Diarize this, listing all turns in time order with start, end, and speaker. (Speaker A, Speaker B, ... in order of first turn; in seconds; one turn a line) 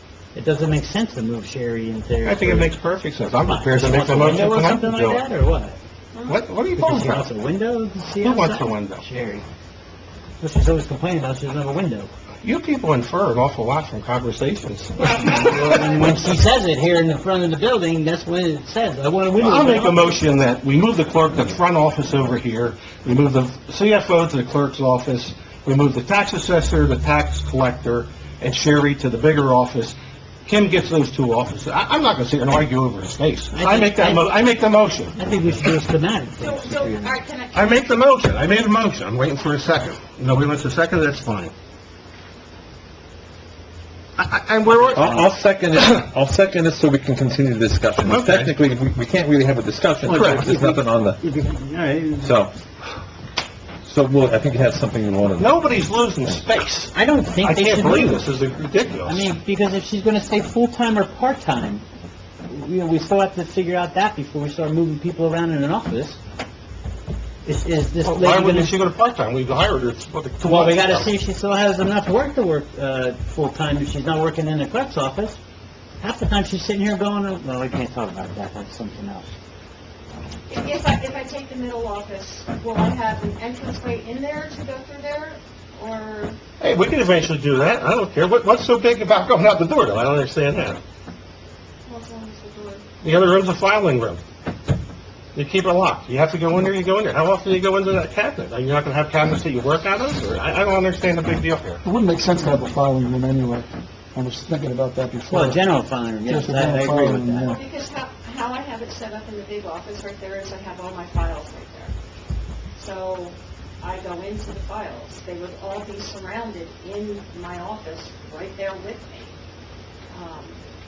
Speaker A: 0.3-2.7
Speaker B: 2.2-5.2
Speaker A: 3.4-5.8
Speaker C: 6.1-6.4
Speaker B: 6.3-7.3
Speaker A: 6.7-9.4
Speaker B: 8.2-9.0
Speaker A: 10.4-12.1
Speaker B: 12.4-16.0
Speaker A: 15.0-20.2
Speaker B: 19.4-35.1
Speaker A: 33.5-34.3
Speaker A: 35.1-37.1
Speaker C: 36.4-37.8
Speaker B: 37.5-41.5
Speaker B: 44.2-45.2
Speaker A: 44.7-45.3
Speaker D: 44.9-51.2
Speaker B: 48.0-48.5
Speaker A: 50.0-52.4
Speaker D: 52.2-52.5
Speaker D: 53.8-55.5
Speaker B: 55.4-59.3
Speaker A: 56.9-58.2
Speaker A: 59.0-61.8
Speaker A: 62.4-66.2
Speaker A: 67.4-68.7
Speaker B: 68.0-71.1
Speaker A: 70.4-75.4
Speaker A: 76.0-79.3
Speaker C: 80.5-86.4
Speaker B: 86.6-90.8
Speaker C: 91.8-92.9
Speaker B: 93.0-94.2
Speaker B: 95.3-101.8
Speaker E: 101.8-105.6
Speaker A: 105.3-107.5
Speaker E: 106.2-107.6
Speaker C: 107.4-111.9
Speaker C: 112.8-119.3
Speaker C: 120.1-120.6